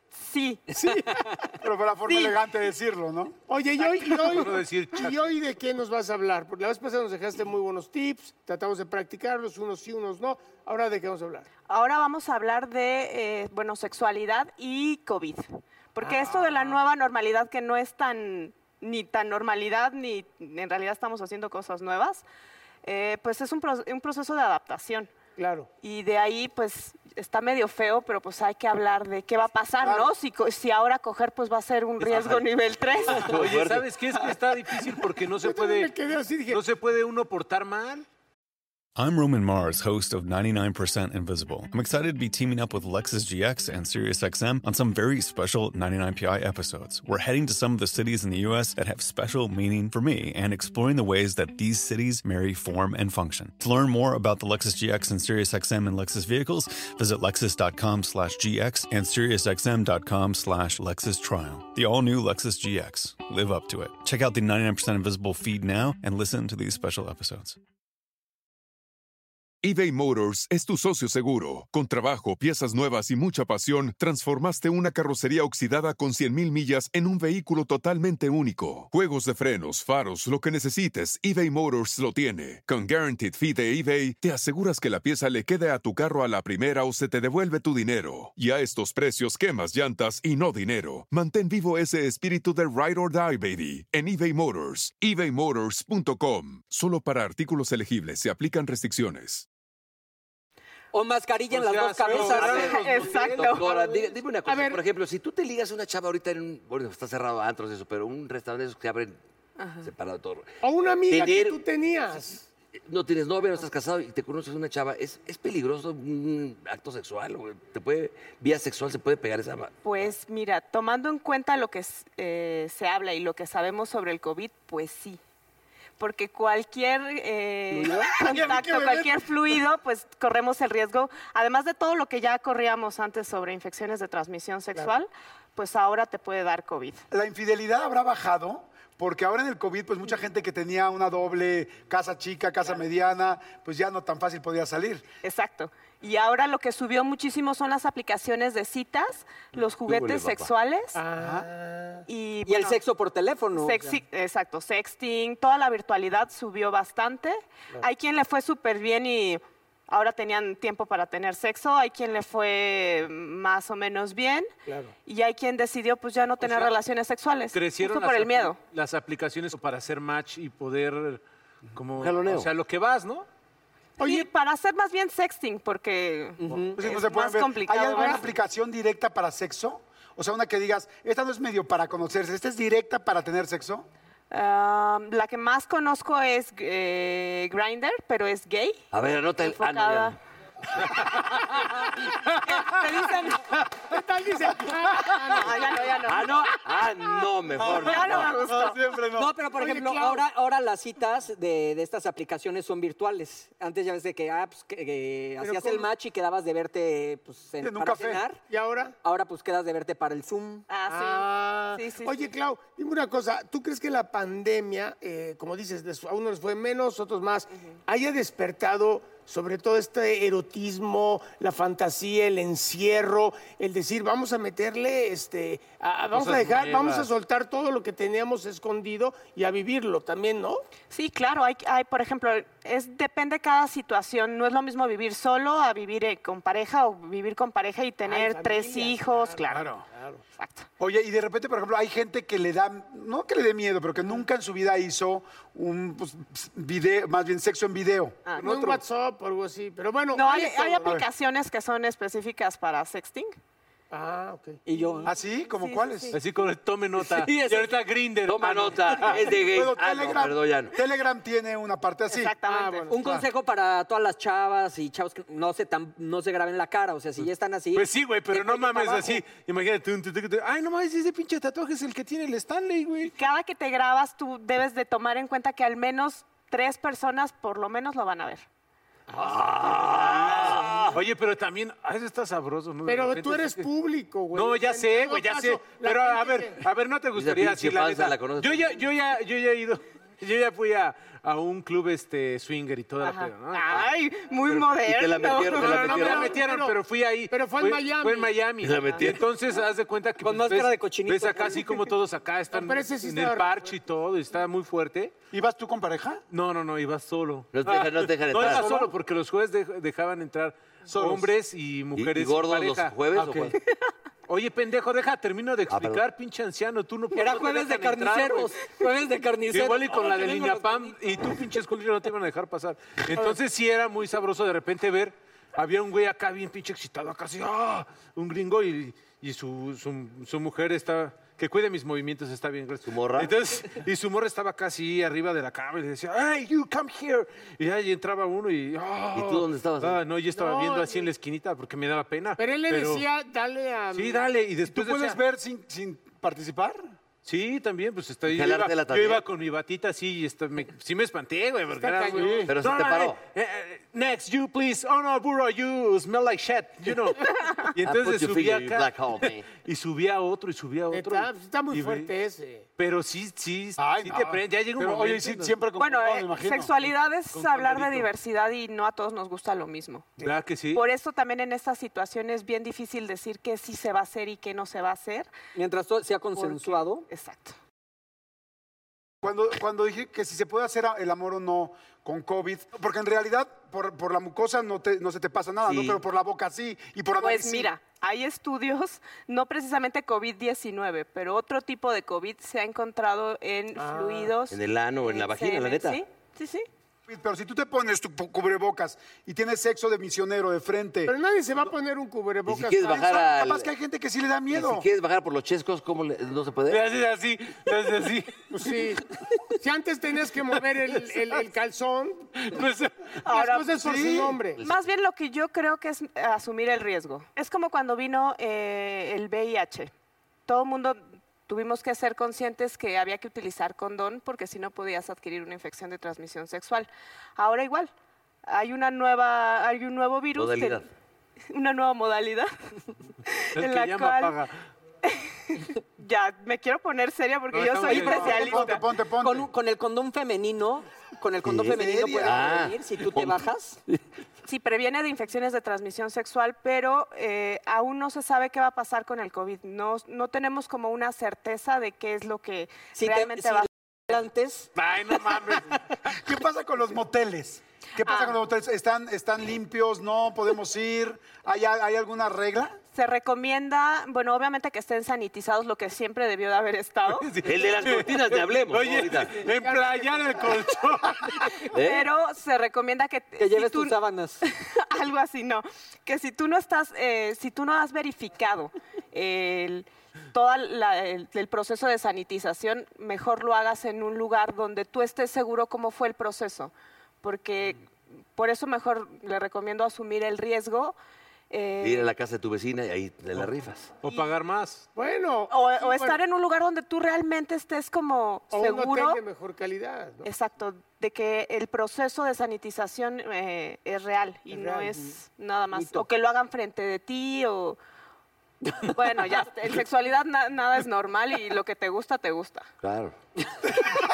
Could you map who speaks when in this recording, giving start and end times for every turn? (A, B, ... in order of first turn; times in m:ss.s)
0:00.1-0:00.6 A
0:00.9-0:03.3 B
0:00.9-0:01.5 C
0:03.5-0:11.5 D
0:03.8-0:05.3 E
0:11.7-0:22.2 A
0:16.0-0:16.8 D
0:22.8-0:25.1 A
0:25.4-0:25.7 D
0:25.8-0:33.4 A
0:32.0-0:33.9 F
0:33.2-0:35.9 E
0:35.4-0:36.6 D
0:36.5-0:38.0 E
0:39.0-1:07.6 G
1:09.6-1:39.4 H
1:40.9-1:42.8 C
1:41.5-1:43.7 E
1:42.1-1:49.2 F
1:42.3-1:43.7 A
1:44.4-1:44.8 D
1:49.6-1:49.9 A
1:49.8-1:50.5 F
1:50.6-1:52.4 D
1:51.1-1:51.6 F
1:52.8-1:59.8 F
1:59.8-2:05.2 A
2:06.0-2:17.1 A
2:07.7-2:09.1 B
2:17.1-2:25.0 B
2:25.2-2:31.0 A
2:29.6-2:30.5 F
2:30.9-2:32.0 D
2:31.2-2:31.5 B
2:32.1-2:32.8 A
2:32.4-2:34.0 C
2:33.5-2:44.5 A
2:44.6-2:44.9 D
2:45.0-2:48.6 A
2:46.4-2:46.7 E
2:47.5-2:53.3 E
2:52.0-2:52.5 F
2:54.0-2:58.3 A
2:54.0-2:54.2 D
2:56.4-2:56.8 C
2:56.5-3:03.9 B
2:57.9-2:58.2 D
3:04.3-3:08.8 A
3:08.9-3:10.2 F
3:09.4-3:10.2 A
3:12.3-3:12.8 E
3:12.4-3:13.4 A
3:13.7-3:16.0 D
3:15.3-3:16.4 A
3:16.0-3:18.4 F
3:17.6-3:19.3 B
3:17.6-3:18.8 A
3:19.1-3:28.4 C
3:19.5-3:20.2 D
3:25.4-3:25.9 D
3:27.6-3:28.2 B
3:28.5-3:28.9 D
3:29.0-3:30.6 C
3:30.7-3:32.3 A
3:30.9-3:50.6 D
3:46.1-3:47.1 E
3:50.9-3:59.7 A
3:58.0-4:00.2 D
3:59.5-3:59.8 E
4:00.4-4:00.7 A
4:00.8-4:08.2 B
4:08.4-4:11.0 D
4:08.4-4:08.8 E
4:10.1-4:13.3 A
4:13.9-4:14.6 D
4:14.6-4:15.1 C
4:14.8-4:16.2 A
4:15.0-4:16.2 B
4:16.1-4:19.2 E
4:17.0-4:17.8 C
4:18.2-4:20.8 F
4:19.3-4:22.3 B
4:22.1-4:22.9 A
4:22.5-4:23.2 D
4:22.9-4:29.2 C
4:27.7-4:33.1 E
4:33.1-4:38.4 A
4:39.1-4:41.0 F
4:39.6-4:43.7 E
4:42.8-4:46.6 D
4:44.3-4:53.8 E
4:47.1-4:48.8 F
4:53.0-4:55.8 A
4:54.4-4:56.4 F
4:55.5-5:05.1 E
4:55.6-4:58.4 D
4:58.6-4:59.2 F
5:00.2-5:01.8 C
5:02.5-5:03.7 D
5:05.3-5:06.2 B
5:06.3-5:13.0 E
5:07.5-5:08.8 F
5:08.4-5:08.9 B
5:10.9-5:11.3 B
5:11.9-5:13.6 F
5:13.1-5:13.5 B
5:14.3-5:18.6 E
5:15.7-5:16.0 F
5:17.1-5:21.4 C
5:19.5-5:43.0 E
5:32.8-5:33.4 F
5:39.1-5:40.0 F
5:40.3-5:41.1 D
5:42.4-5:44.2 D
5:43.9-5:45.2 E
5:44.6-5:46.9 B
5:47.2-6:02.1 E
5:48.3-5:49.2 F
5:51.8-5:52.5 D
5:52.1-5:52.5 B
5:52.5-5:53.2 F
5:57.8-5:59.5 F
6:00.9-6:02.7 D
6:02.8-6:05.6 E
6:03.8-6:06.7 B
6:05.7-6:10.2 A
6:07.3-6:08.1 E
6:10.2-6:10.8 E
6:10.7-6:15.3 A
6:15.5-6:17.1 C
6:16.3-6:17.6 A
6:19.2-6:27.7 B
6:25.6-6:26.0 F
6:27.2-6:36.6 A
6:33.7-6:34.3 D
6:34.5-6:36.0 F
6:37.1-6:41.1 B
6:41.0-6:43.1 D
6:42.5-6:43.7 F
6:42.8-6:44.9 B
6:44.5-6:46.8 F
6:46.7-6:48.5 E
6:48.5-6:52.3 D
6:52.4-6:53.2 E
6:53.2-6:54.6 D
6:53.3-6:53.7 A
6:53.6-6:54.4 B
6:54.6-6:54.9 F
6:54.6-6:59.9 A
7:00.5-7:07.9 A
7:08.4-7:10.8 A
7:10.3-7:10.8 F
7:11.5-7:12.5 A
7:13.3-7:14.4 A
7:13.5-7:14.5 E
7:15.0-7:18.8 A
7:17.5-7:18.7 E
7:17.9-7:18.2 C
7:17.9-7:19.5 B
7:19.2-7:23.8 C
7:21.4-7:24.0 F
7:21.7-7:22.5 B
7:24.4-7:34.2 A
7:32.9-7:34.7 C
7:34.7-7:35.8 E
7:36.0-7:42.8 B
7:38.0-7:38.4 A
7:42.9-7:47.3 A
7:47.1-7:51.7 E
7:47.4-7:49.5 F
7:49.6-7:50.4 D
7:51.7-7:52.1 F
7:51.7-8:06.7 A
7:53.4-7:54.4 C
8:07.2-8:11.0 A
8:11.5-8:12.1 A
8:11.8-8:13.9 F
8:14.0-8:14.8 E
8:14.9-8:16.2 D
8:15.5-8:19.2 A
8:18.5-8:20.3 D
8:20.2-8:27.8 A
8:24.5-8:25.1 D
8:28.8-8:32.7 A
8:32.8-8:33.1 F